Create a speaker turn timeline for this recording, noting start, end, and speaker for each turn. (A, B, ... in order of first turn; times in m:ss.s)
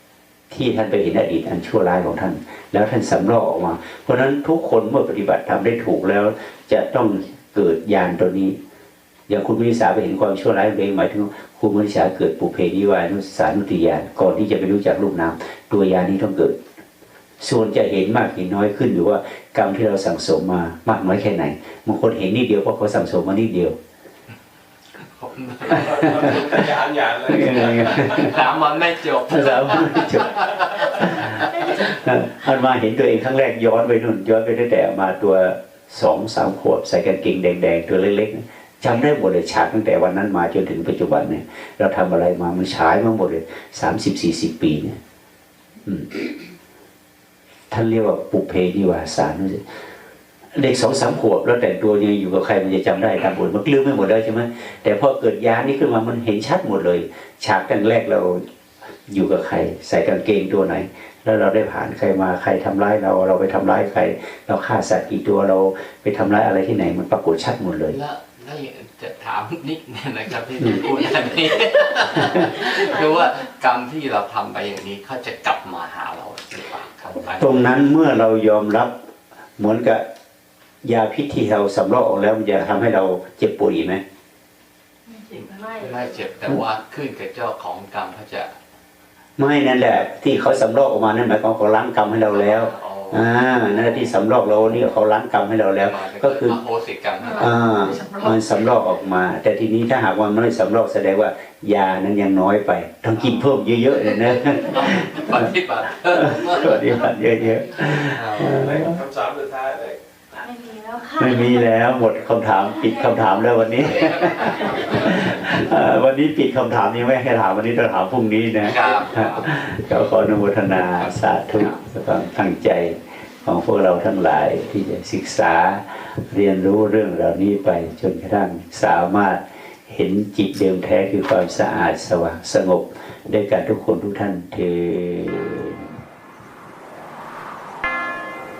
0:00.5-0:08.6 A
0:09.3-0:16.6 A
0:17.4-0:23.8 A
0:25.0-0:31.8 B
0:25.7-0:28.5 C
0:26.0-0:26.4 A
0:27.2-0:28.4 A
0:29.3-0:45.0 A
0:45.8-0:46.2 A
0:47.7-0:49.6 A
0:50.6-0:58.4 A
0:59.1-1:08.0 A
1:07.9-1:17.7 B
1:12.2-1:12.4 A
1:12.6-1:13.3 D
1:17.3-1:19.0 A
1:19.6-1:20.0 A
1:20.8-1:24.0 A
1:25.1-1:26.1 D
1:25.7-1:28.6 B
1:29.4-1:36.6 A
1:32.3-1:34.1 B
1:35.8-1:37.6 B
1:37.3-1:38.4 D
1:37.3-1:45.3 A
1:43.1-1:43.6 B
1:44.4-1:46.9 B
1:46.1-1:49.0 A
1:48.0-1:48.8 B
1:48.4-1:50.0 C
1:50.4-1:51.7 D
1:51.2-2:15.9 A
1:52.7-1:54.8 D
1:53.8-1:55.3 B
1:58.6-1:59.5 B
2:01.0-2:01.8 B